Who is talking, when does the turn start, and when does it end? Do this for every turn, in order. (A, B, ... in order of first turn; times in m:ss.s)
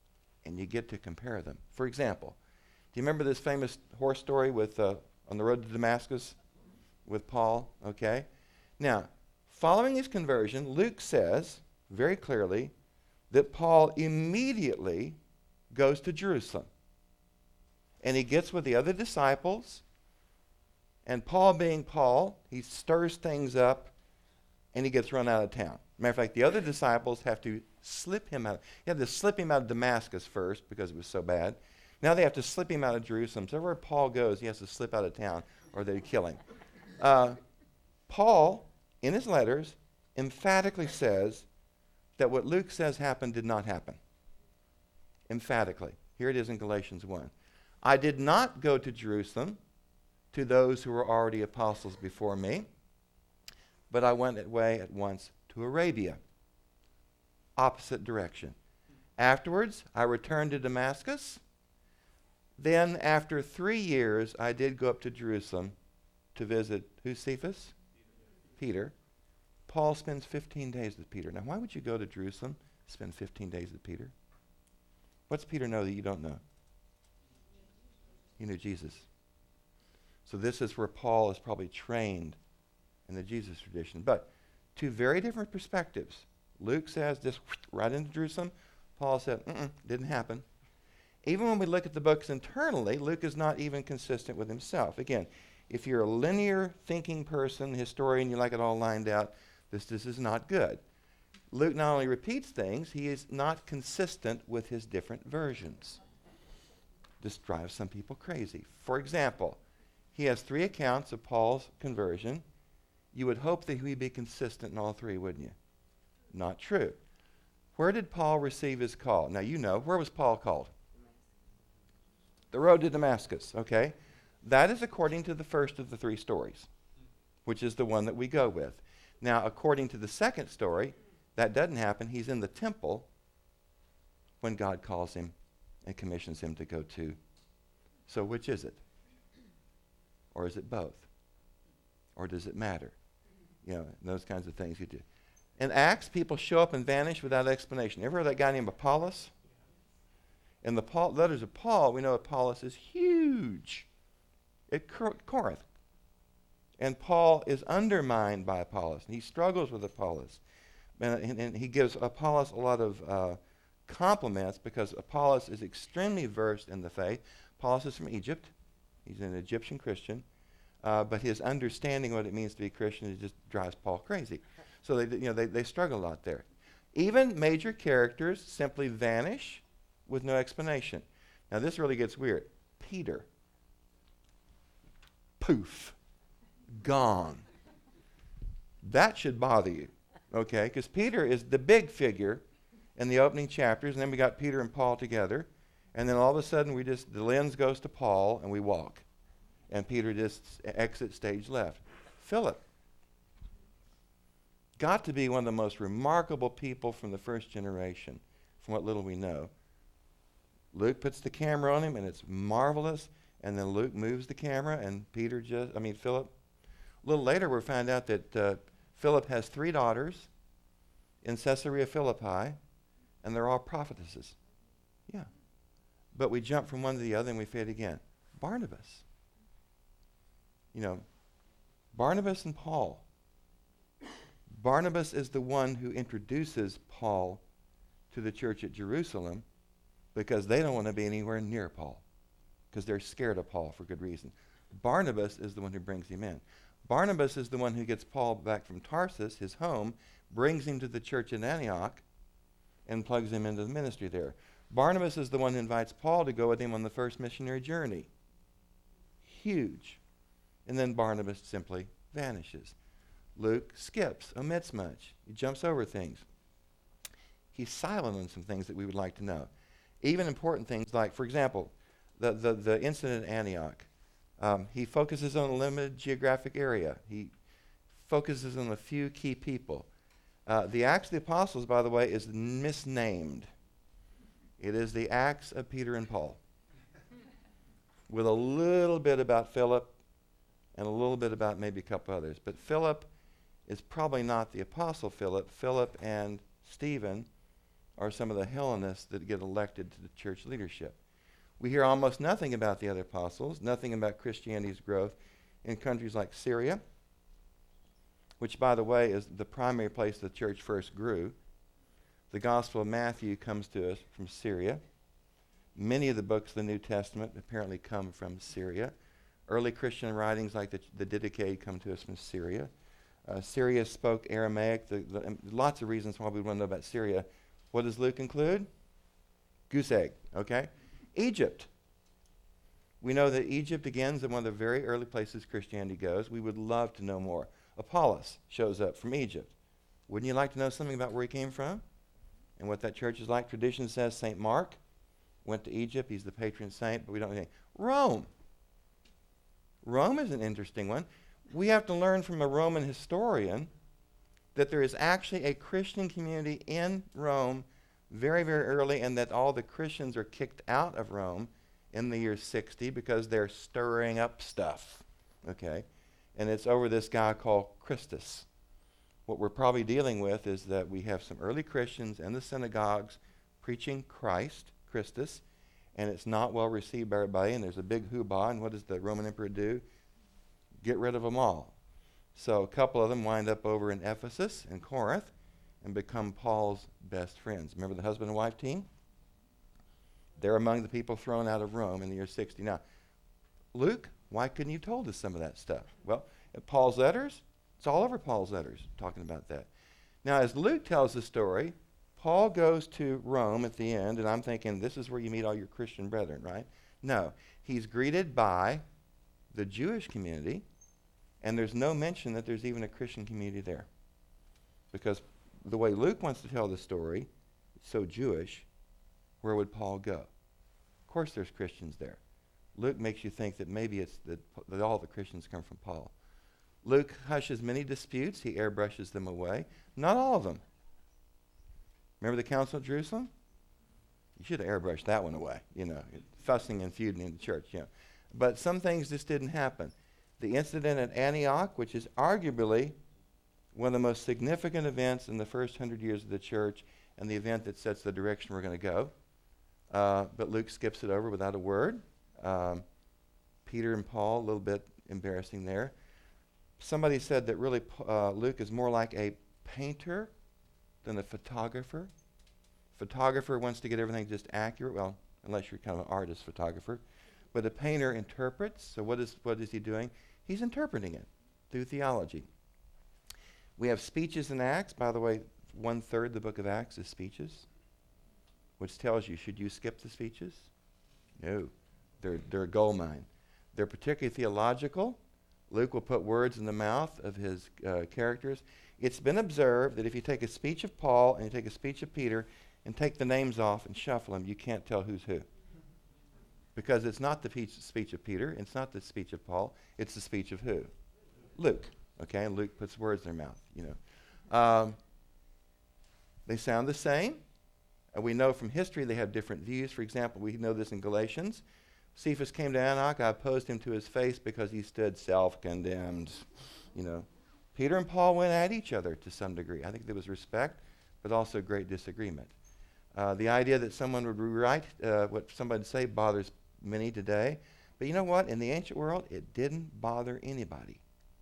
0:00.4-0:02.4 A
0:02.9-0:06.4 A
0:07.1-0:08.3 A
0:08.8-0:12.7 A
0:13.3-0:15.2 A
0:15.7-0:16.7 A
0:18.0-0:19.8 A
0:21.1-0:23.9 A
0:24.7-0:36.4 A
0:37.0-0:37.4 A
0:38.1-0:41.5 A
0:42.2-0:44.0 A
0:45.3-0:47.3 A
0:47.8-0:49.6 A
0:50.3-0:52.7 A
0:53.9-0:56.2 A
0:57.6-0:58.6 A
0:59.2-1:01.4 A
1:02.6-1:05.8 A
1:06.4-1:07.7 A
1:08.6-1:08.9 A
1:09.7-1:14.1 A
1:15.3-1:16.4 A
1:18.4-1:19.0 A
1:20.3-1:22.4 A
1:23.1-1:30.5 A
1:31.2-1:40.8 A
1:41.5-1:46.0 A
1:47.2-1:49.6 A
1:50.1-1:52.4 A
1:53.1-1:55.6 A
1:56.3-1:57.0 A
1:57.8-2:00.7 A
2:02.5-2:06.7 A
2:07.5-2:13.1 A
2:14.4-2:15.4 A
2:15.9-2:17.2 A
2:18.1-2:18.8 A
2:20.3-2:21.1 A
2:22.2-2:23.0 A
2:23.6-2:25.0 A
2:25.6-2:29.3 A
2:30.6-2:33.9 A
2:34.7-2:35.6 A
2:36.8-2:40.4 A
2:41.0-2:48.5 A
2:49.0-2:50.2 A
2:50.8-3:03.3 A
3:05.4-3:06.0 A
3:06.7-3:07.4 A
3:08.8-3:12.4 A
3:13.0-3:19.0 A
3:19.7-3:22.6 A
3:24.8-3:29.5 A
3:30.7-3:36.3 A
3:37.0-3:40.3 A
3:41.2-3:42.6 A
3:43.2-3:44.4 A
3:46.1-3:49.0 A
3:50.7-3:51.0 A
3:51.9-3:53.0 A
3:54.5-3:57.4 A
3:58.1-3:59.4 A
4:00.1-4:02.0 A
4:02.7-4:12.0 A
4:12.9-4:18.1 A
4:19.3-4:20.0 A
4:20.7-4:22.8 A
4:23.4-4:26.2 A
4:27.5-4:29.5 A
4:30.0-4:33.9 A
4:34.4-4:37.3 A
4:37.9-4:39.9 A
4:40.5-4:43.5 A
4:44.6-4:46.4 A
4:48.1-4:50.0 A
4:50.8-4:53.1 A
4:53.7-4:57.3 A
4:58.0-5:01.0 A
5:01.6-5:06.8 A
5:08.4-5:11.4 A
5:12.3-5:14.8 A
5:15.8-5:18.9 A
5:19.5-5:22.7 A
5:23.2-5:28.7 A
5:29.7-5:31.7 A
5:33.0-5:39.5 A
5:40.1-5:41.8 A
5:42.6-5:44.8 A
5:45.4-5:48.3 A
5:49.8-5:53.7 A
5:54.6-6:08.5 A
6:09.3-6:15.4 A
6:16.0-6:19.8 A
6:20.8-6:21.8 A
6:22.4-6:28.9 A
6:30.4-6:32.8 A
6:33.7-6:39.7 A
6:40.2-6:48.8 A
6:49.5-6:50.6 A
6:51.4-6:53.9 A
6:54.9-6:57.3 A
6:57.8-6:58.7 A
6:59.4-7:00.3 A
7:01.1-7:02.2 A
7:02.8-7:06.1 A
7:06.8-7:10.6 A
7:12.2-7:13.3 A
7:14.4-7:23.0 A
7:23.7-7:29.1 A
7:29.9-7:32.8 A
7:33.6-7:35.9 A
7:36.8-7:40.3 A
7:41.0-7:42.1 A
7:42.9-7:47.0 A
7:47.5-7:52.5 A
7:53.8-7:57.7 A
7:58.8-8:00.7 A
8:01.4-8:15.5 A
8:16.8-8:20.9 A
8:21.6-8:24.0 A
8:24.5-8:25.0 A
8:26.5-8:27.4 A
8:28.1-8:31.6 A
8:32.2-8:42.5 A
8:43.1-8:51.0 A